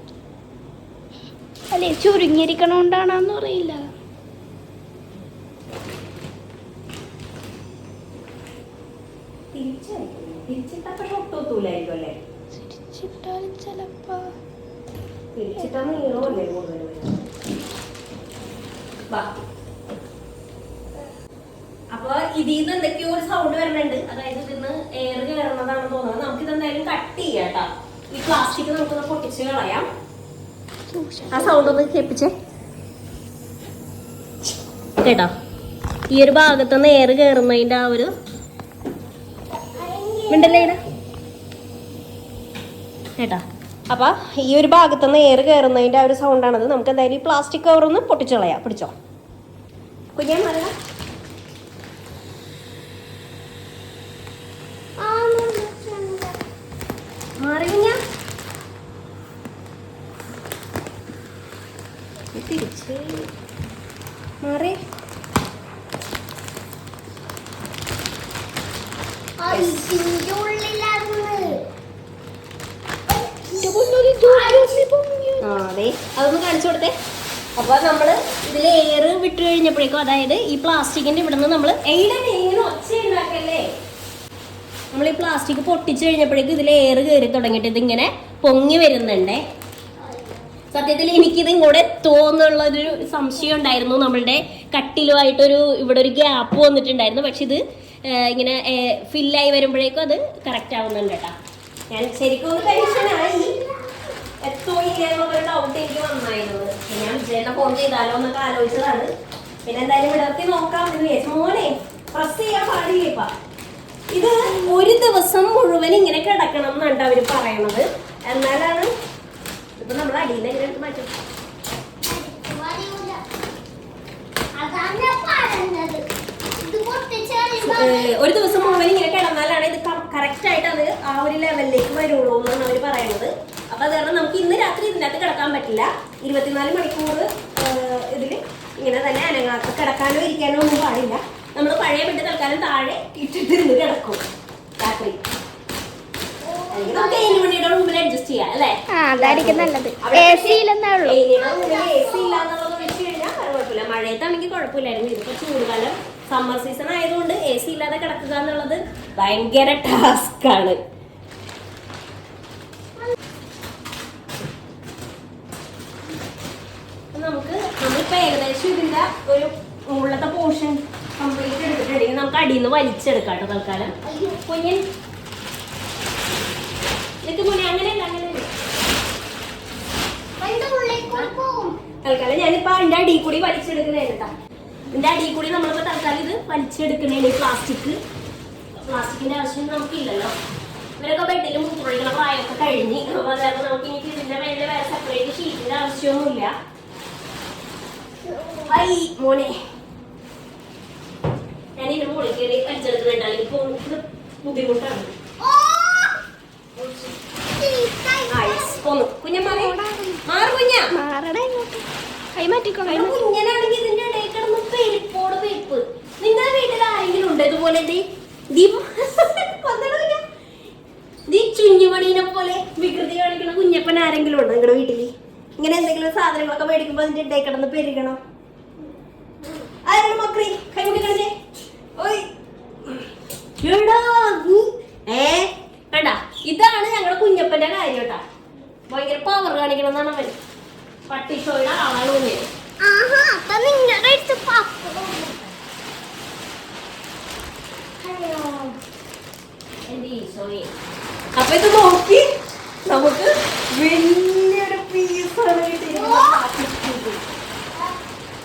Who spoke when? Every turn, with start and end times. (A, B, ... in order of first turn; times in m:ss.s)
0:01.7-0:03.9 A
0:09.5-0:12.1 B
0:12.6-0:14.3 A
0:15.4-0:17.2 B
0:15.6-0:16.4 A
0:21.9-0:29.9 B
0:30.9-0:31.8 A
0:31.3-0:32.3 B
0:35.0-0:35.3 B
0:36.1-0:38.1 B
0:39.7-0:40.7 C
0:40.3-0:40.8 B
0:43.2-0:48.9 B
0:50.2-0:50.7 B
0:55.0-0:56.4 C
0:57.4-0:58.0 B
1:02.3-1:03.3 B
1:04.4-1:04.8 B
1:09.4-1:11.6 C
1:09.5-1:10.0 B
1:13.3-1:15.4 A
1:14.2-1:14.9 C
1:15.4-1:16.9 B
1:17.6-1:23.6 B
1:24.9-1:29.4 B
1:30.0-1:30.4 C
1:30.7-1:41.3 B
1:41.9-1:43.5 B
1:42.5-1:43.9 C
1:44.4-1:49.1 B
1:49.7-1:53.3 B
1:54.1-1:58.9 B
1:59.8-2:01.1 B
2:02.0-2:03.2 C
2:04.6-2:06.0 C
2:06.6-2:08.9 C
2:07.6-2:24.2 B
2:24.8-2:25.2 B
2:26.4-2:27.5 C
2:26.7-2:40.8 B
2:28.9-2:31.2 A
2:31.4-2:32.5 C
2:47.1-2:53.9 B
2:54.0-2:54.4 C
2:54.5-2:54.8 B
2:57.2-2:58.5 B
3:00.4-3:01.8 C
3:02.0-3:04.3 B
3:04.9-3:08.0 B
3:08.9-3:10.3 B
3:11.0-3:16.5 B
3:18.2-3:18.8 C
3:18.7-3:19.6 B
3:21.8-3:25.1 B
3:25.4-3:26.2 C
3:27.5-3:28.8 C
3:28.3-3:30.9 B
3:29.4-3:30.2 A
3:30.9-3:33.2 A
3:32.8-3:40.2 B
3:41.3-3:48.2 B
3:49.8-3:51.3 B
3:52.0-3:52.3 B
3:53.6-3:58.2 B
3:58.9-4:00.4 B
4:01.1-4:02.4 B
4:02.8-4:05.6 C
4:08.0-4:08.7 B
4:09.9-4:10.7 B
4:11.4-4:12.3 B
4:12.9-4:17.2 B
4:15.9-4:16.4 C